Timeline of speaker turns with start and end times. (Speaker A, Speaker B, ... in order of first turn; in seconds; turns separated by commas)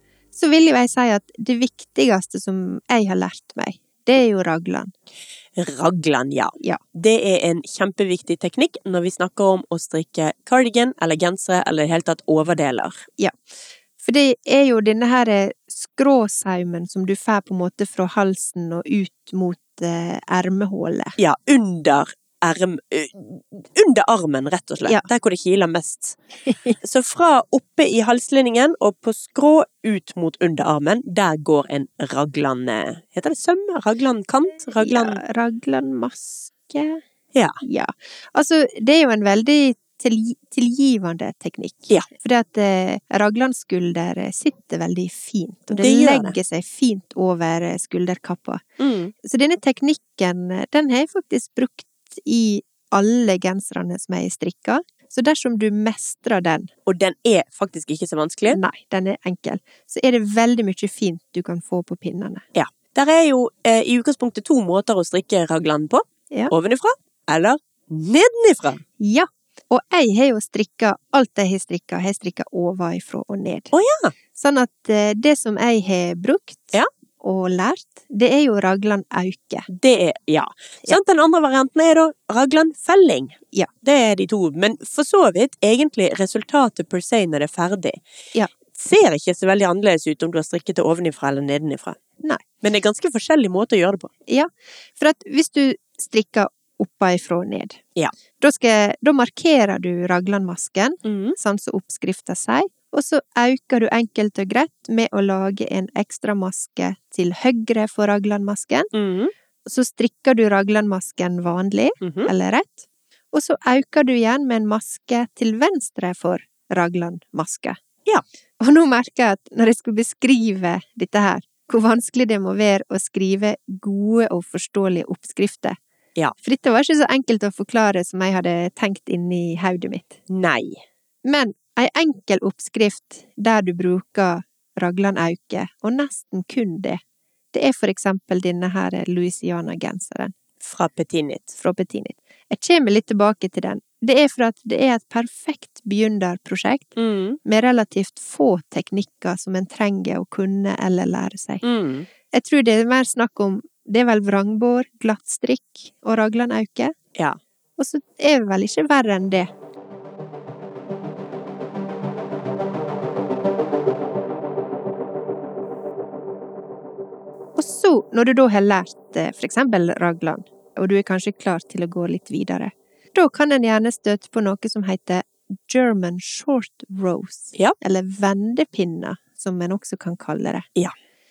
Speaker A: 0.3-4.9, Speaker B: 5.5-13.0, Speaker A: 14.0-21.1, Speaker B: 21.2-26.2, Speaker A: 26.5-26.8, Speaker B: 26.8-35.2, Speaker A: 34.8-37.0, Speaker A: 37.6-48.6, Speaker B: 45.7-46.4, Speaker B: 48.8-49.1, Speaker A: 49.2-56.7, Speaker B: 56.9-58.6, Speaker A: 58.5-62.4, Speaker B: 62.5-68.8, Speaker A: 69.0-73.7, Speaker B: 73.7-74.1, Speaker A: 74.3-79.7, Speaker B: 79.7-88.0, Speaker B: 88.7-92.0, Speaker B: 92.6-94.1, Speaker A: 94.3-97.8, Speaker A: 98.4-108.9, Speaker B: 101.0-101.3, Speaker B: 108.9-109.3, Speaker A: 109.6-117.8, Speaker B: 112.0-112.3, Speaker A: 118.6-125.8, Speaker A: 126.4-130.2, Speaker B: 130.3-130.8, Speaker A: 131.2-137.0, Speaker A: 137.5-140.3, Speaker B: 140.6-141.5, Speaker A: 141.6-151.6, Speaker B: 146.9-147.4, Speaker B: 151.6-152.1, Speaker A: 152.3-156.9, Speaker A: 157.8-159.5, Speaker A: 167.6-180.7